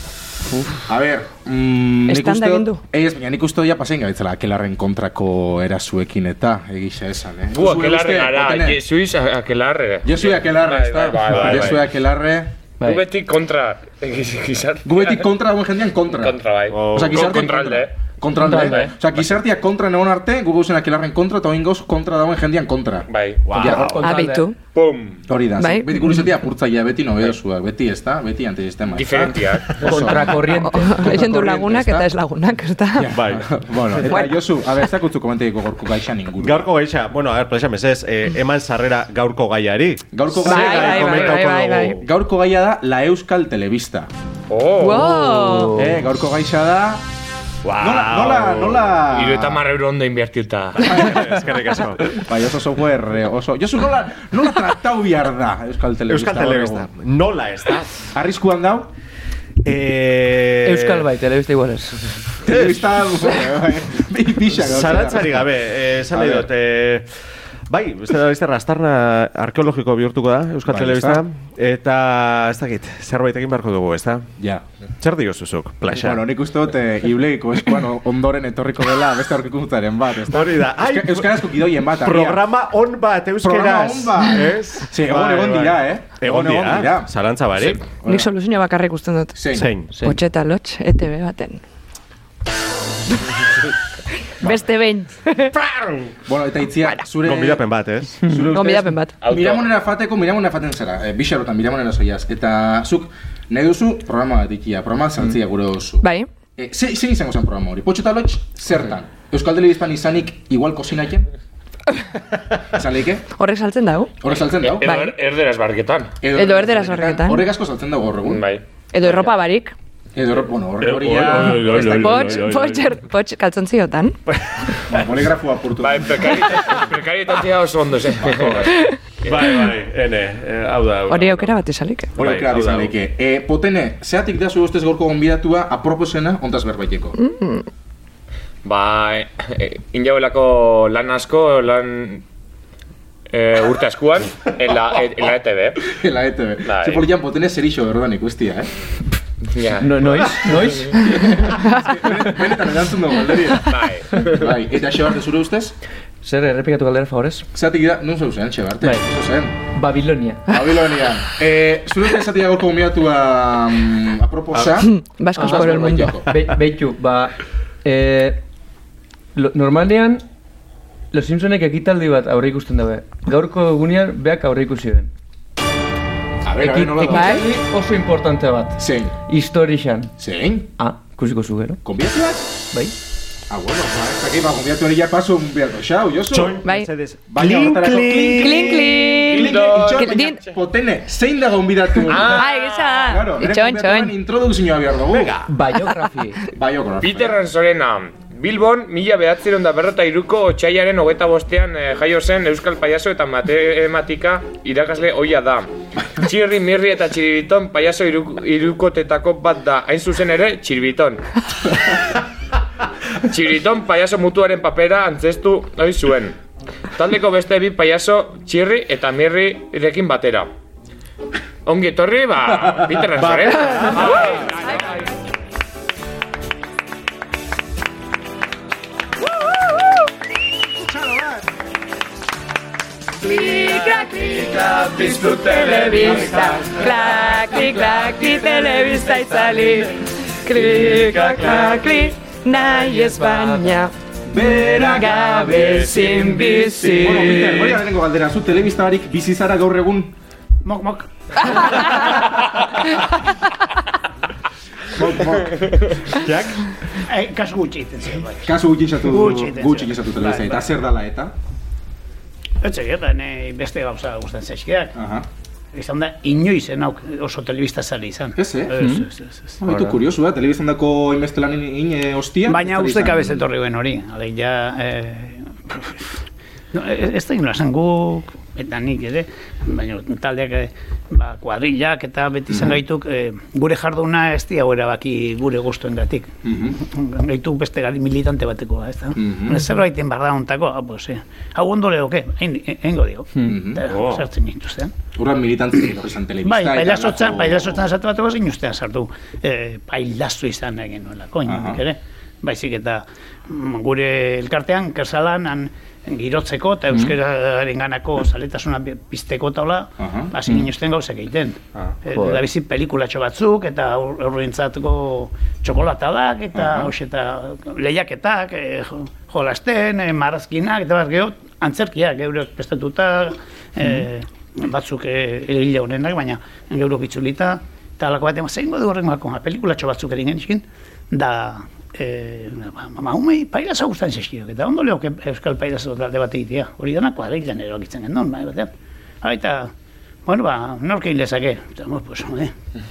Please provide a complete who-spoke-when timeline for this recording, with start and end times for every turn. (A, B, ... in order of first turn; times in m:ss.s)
0:00.6-0:08.8 A
0:02.1-0:02.8 B
0:07.5-0:11.9 C
0:10.0-0:12.6 A
0:12.8-0:13.0 D
0:12.8-0:15.3 C
0:14.8-0:23.1 A
0:16.1-0:18.9 C
0:16.7-0:17.4 E
0:18.4-0:18.9 D
0:23.1-0:23.4 C
0:23.4-0:24.1 E
0:23.5-0:24.5 D
0:24.0-0:24.6 B
0:24.7-0:25.2 C
0:25.3-0:32.1 A
0:25.6-0:26.2 B
0:28.9-0:29.9 C
0:29.8-0:31.3 D
0:30.6-0:33.2 B
0:32.9-0:36.7 A
0:33.1-0:33.5 E
0:36.4-0:42.0 E
0:40.1-0:44.1 A
0:40.4-0:42.0 B
0:40.8-0:41.4 C
0:44.5-0:45.2 C
0:44.8-0:45.8 B
0:45.3-0:45.9 D
0:45.7-0:47.0 A
0:47.6-0:48.8 E
0:47.8-0:49.6 A
0:49.0-0:51.0 C
0:50.8-0:51.3 A
0:50.9-0:52.2 E
0:52.1-0:56.9 A
0:56.1-0:58.0 E
0:58.1-0:58.9 A
0:59.6-1:01.0 E
1:00.6-1:02.1 D
1:02.4-1:02.9 E
1:02.4-1:05.5 A
1:04.5-1:07.1 E
1:06.1-1:06.5 A
1:07.7-1:14.3 E
1:10.7-1:11.2 A
1:14.4-1:14.6 A
1:15.0-1:16.2 E
1:16.0-1:22.5 A
1:20.2-1:28.0 E
1:23.4-1:27.1 A
1:27.7-1:28.3 A
1:28.0-1:31.6 B
1:29.3-1:29.7 A
1:29.5-1:30.0 E
1:29.9-1:30.2 D
1:34.4-1:35.5 B
1:35.5-1:36.1 E
1:36.2-1:37.6 A
1:37.2-1:38.3 E
1:38.2-1:51.3 A
1:38.3-1:39.2 B
1:39.2-1:39.7 C
1:46.0-1:46.3 B
1:52.6-1:53.3 A
1:53.4-1:54.1 B
1:54.2-1:54.9 A
1:54.6-1:56.2 C
1:54.8-1:55.1 B
1:56.2-1:58.4 A
1:56.3-1:57.5 B
1:58.2-1:59.2 C
1:58.9-1:59.7 B
2:00.1-2:02.4 A
2:00.8-2:02.9 E
2:01.7-2:04.2 B
2:04.3-2:04.6 E
2:04.9-2:06.6 A
2:05.8-2:08.9 C
2:08.2-2:08.6 A
2:09.2-2:11.6 E
2:11.1-2:12.1 B
2:12.1-2:12.9 E
2:12.2-2:17.2 A
2:17.2-2:17.6 B
2:18.6-2:22.2 C
2:23.3-2:25.9 C
2:25.8-2:28.7 A
2:26.6-2:27.0 C
2:29.5-2:30.2 C
2:29.8-2:31.6 D
2:31.5-2:35.8 A
2:33.7-2:34.4 C
2:36.2-2:37.5 D
2:37.5-2:39.6 A
2:39.7-2:40.6 D
2:40.5-2:46.3 A
2:44.8-2:46.2 B
2:45.4-2:48.4 D
2:49.3-2:50.2 D
2:51.1-2:55.1 D
2:56.4-2:57.4 A
2:56.6-3:00.1 D
2:57.0-2:57.5 B
2:58.8-2:59.1 A
3:00.2-3:00.7 A
3:00.8-3:01.8 D
3:01.8-3:02.7 A
3:03.5-3:06.6 A
3:06.3-3:08.7 E
3:06.6-3:06.9 B
3:07.3-3:15.4 A
3:08.3-3:10.4 B
3:09.3-3:10.0 C
3:12.0-3:13.0 C
3:12.2-3:14.1 B
3:15.1-3:15.4 E
3:15.4-3:16.4 D
3:16.5-3:17.4 A
3:17.0-3:31.2 C
3:33.2-3:36.4 C
3:36.9-3:40.5 C
3:41.6-3:45.1 C
3:43.2-3:44.1 E
3:50.8-3:51.5 A
3:53.2-4:03.9 B
3:53.3-3:58.9 A
4:02.9-4:03.7 D
4:04.3-4:10.1 A
4:04.6-4:07.6 B
4:05.3-4:06.2 D
4:10.6-4:12.4 F
4:15.0-4:15.4 A
4:15.1-4:15.4 F
4:16.1-4:16.7 E
4:16.9-4:20.7 F
4:18.4-4:21.3 A
4:22.6-4:25.0 F
4:24.9-4:25.3 A
4:25.7-4:29.7 F
4:28.4-4:28.8 A
4:28.8-4:29.0 D
4:29.6-4:33.5 A
4:32.5-4:36.2 F
4:36.7-4:54.9 F
4:42.5-4:42.8 A
4:46.4-4:46.8 A
4:49.2-4:49.6 A
4:53.4-4:53.8 A
4:53.8-4:54.3 E
4:55.1-4:57.8 A
4:56.4-5:39.7 F
5:01.4-5:01.8 A
5:10.0-5:10.3 A
5:12.1-5:12.4 D
5:16.5-5:16.9 A
5:40.2-5:42.5 F